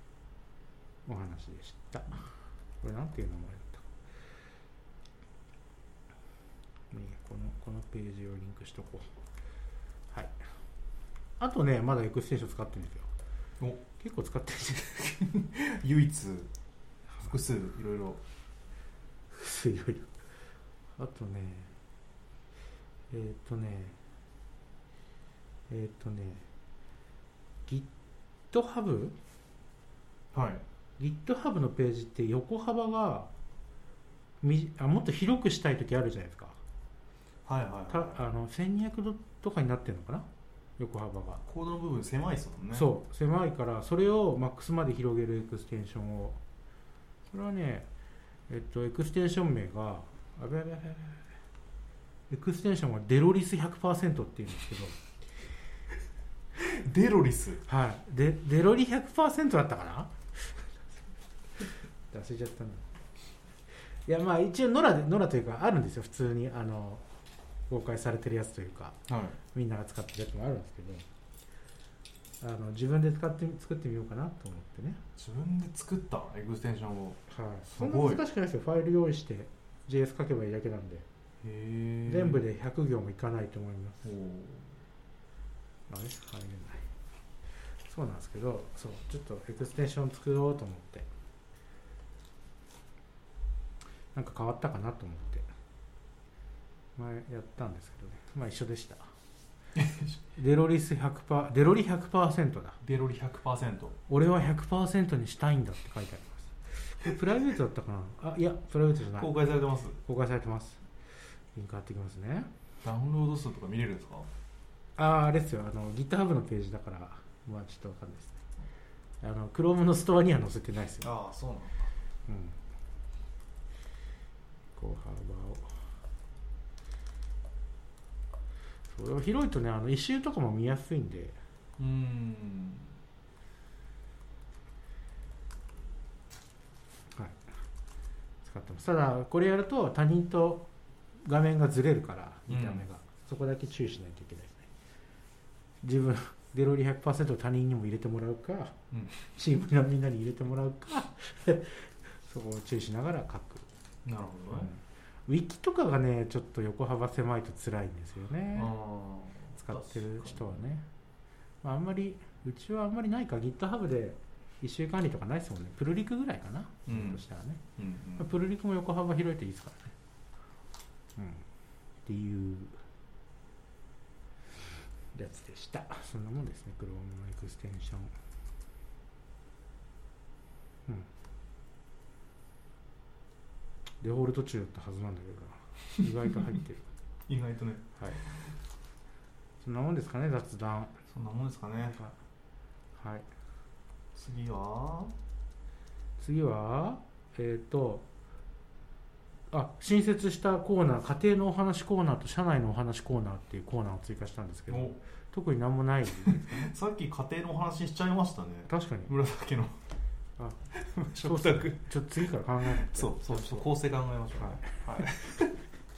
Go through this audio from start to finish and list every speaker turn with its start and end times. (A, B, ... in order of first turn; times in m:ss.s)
0:01.0-0:03.9 A
0:06.9-0:09.1 A
0:11.4-0:13.1 A
0:14.0-0:15.2 A
0:15.0-0:16.5 B
0:17.2-0:18.2 B
0:19.3-0:20.1 A
0:21.0-0:21.7 A
0:23.1-0:24.0 A
0:25.7-0:26.4 A
0:28.5-0:29.2 A
0:30.3-0:30.6 B
0:31.0-0:33.3 A
0:34.4-0:36.6 A
0:37.4-0:38.2 B
0:37.9-0:40.3 A
0:40.8-0:41.4 A
0:41.4-0:42.9 B
0:42.7-0:46.4 A
0:47.3-0:47.9 A
0:48.5-0:51.2 A
0:52.3-0:55.0 A
0:56.6-0:57.6 B
0:57.7-1:00.6 A
1:02.1-1:02.8 A
1:04.0-1:07.0 A
1:07.7-1:09.0 A
1:09.1-1:09.4 B
1:09.5-1:11.0 A
1:12.4-1:15.0 A
1:15.2-1:18.2 B
1:17.3-1:21.0 A
1:21.4-1:22.4 B
1:22.1-1:24.0 A
1:24.0-1:24.7 B
1:25.9-1:26.8 A
1:27.9-1:31.1 A
1:34.1-1:35.5 A
1:37.0-1:39.1 A
1:39.7-1:40.2 B
1:40.4-1:42.8 A
1:42.8-1:44.0 B
1:44.1-1:49.4 A
1:49.2-1:50.0 B
1:50.0-1:50.8 A
1:51.5-1:52.5 A
1:52.8-1:54.3 B
1:55.0-1:58.4 A
1:59.2-2:01.1 A
2:01.0-2:01.9 B
2:02.3-2:02.6 A
2:04.8-2:05.7 A
2:08.9-2:11.4 A
2:11.8-2:12.9 B
2:17.1-2:17.4 A
2:18.4-2:20.7 A
2:21.2-2:24.7 A
2:22.5-2:22.8 B
2:25.8-2:28.8 A
2:28.9-2:29.2 B
2:29.3-2:33.7 A
2:34.0-2:34.7 B
2:34.5-2:38.7 A
2:38.5-2:40.6 B
2:39.6-2:40.8 A
2:41.6-2:47.6 A
2:46.9-2:47.2 B
2:47.8-2:48.3 B
2:48.2-2:49.9 A
2:51.2-2:51.4 A
2:52.0-2:52.7 A
2:55.1-2:58.1 A
3:04.0-3:06.9 A
3:07.3-3:08.5 B
3:08.0-3:08.2 A
3:09.6-3:11.0 A
3:11.1-3:12.0 B
3:13.0-3:13.2 A
3:14.1-3:15.1 B
3:16.2-3:18.0 A
3:19.5-3:26.7 A
3:24.7-3:25.0 B
3:26.2-3:29.8 B
3:28.7-3:29.1 A
3:30.7-3:31.9 B
3:31.2-3:33.7 A
3:32.6-3:35.6 B
3:34.4-3:35.1 A